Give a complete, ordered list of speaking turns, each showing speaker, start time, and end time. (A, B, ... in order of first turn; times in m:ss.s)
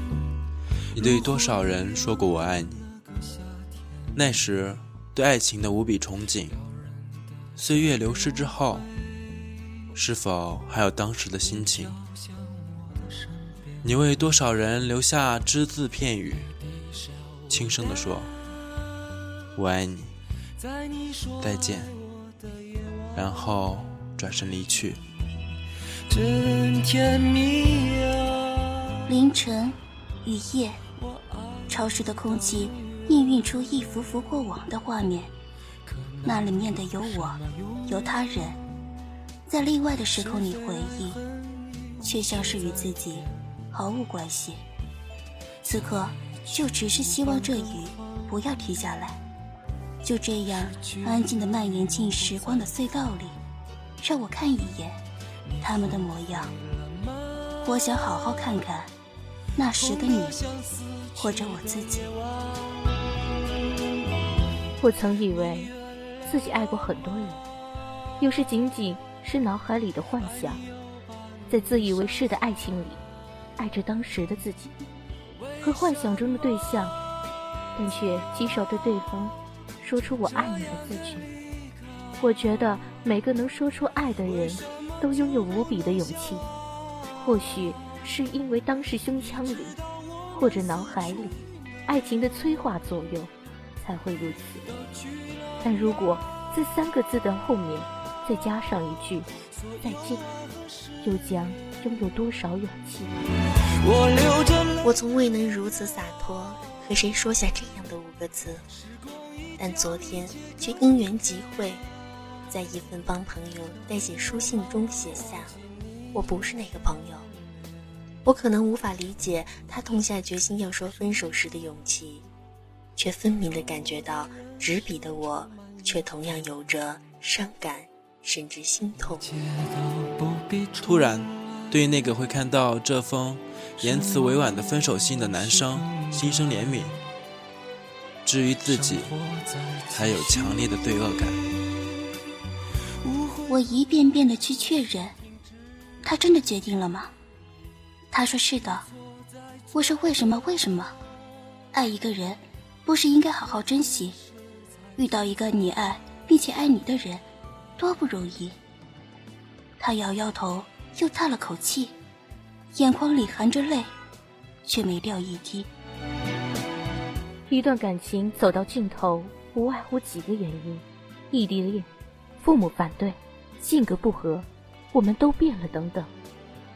0:00.9-0:02.9 A
0:04.1-0:06.6 A
0:07.6-0:08.9 A
0:09.9-0:12.0 A
0:13.8-0:16.5 A
0:17.5-0:18.3 A
0:19.6-0:20.2 A
0:21.4-0:22.0 A
0:23.1-0:25.0 A
0:26.1-0:28.3 B
0:29.0-0:30.8 C
0:31.7-0:35.3 C
0:36.2-0:38.6 C
0:39.4-0:41.2 C
0:42.0-0:44.6 C
0:45.6-0:49.2 C
0:50.0-0:53.4 C
0:54.0-0:55.0 C
0:55.6-0:56.5 C
0:57.6-0:58.9 C
0:59.6-1:00.5 C
1:01.1-1:02.2 C
1:04.8-1:07.4 D
1:08.2-1:10.6 D
1:11.5-1:13.0 D
1:13.6-1:14.7 D
1:15.6-1:17.0 D
1:17.8-1:21.3 D
1:22.2-1:26.5 D
1:27.2-1:29.8 D
1:30.3-1:34.7 D
1:35.6-1:40.3 D
1:41.0-1:43.2 D
1:44.8-1:48.6 E
1:49.6-1:51.8 E
1:52.5-1:55.5 E
1:56.1-1:57.3 E
1:58.2-2:02.2 E
2:03.0-2:09.3 E
2:09.6-2:10.7 B
2:10.8-2:17.0 A
2:18.2-2:19.2 A
2:19.9-2:21.4 A
2:23.4-2:25.1 C
2:26.0-2:27.1 C
2:28.1-2:28.9 C
2:29.7-2:31.0 C
2:31.7-2:34.2 C
2:35.0-2:37.2 C
2:37.8-2:38.6 C
2:39.8-2:41.9 C
2:42.7-2:43.9 C
2:44.6-2:45.7 C
2:47.5-2:51.9 D
2:52.4-2:56.1 D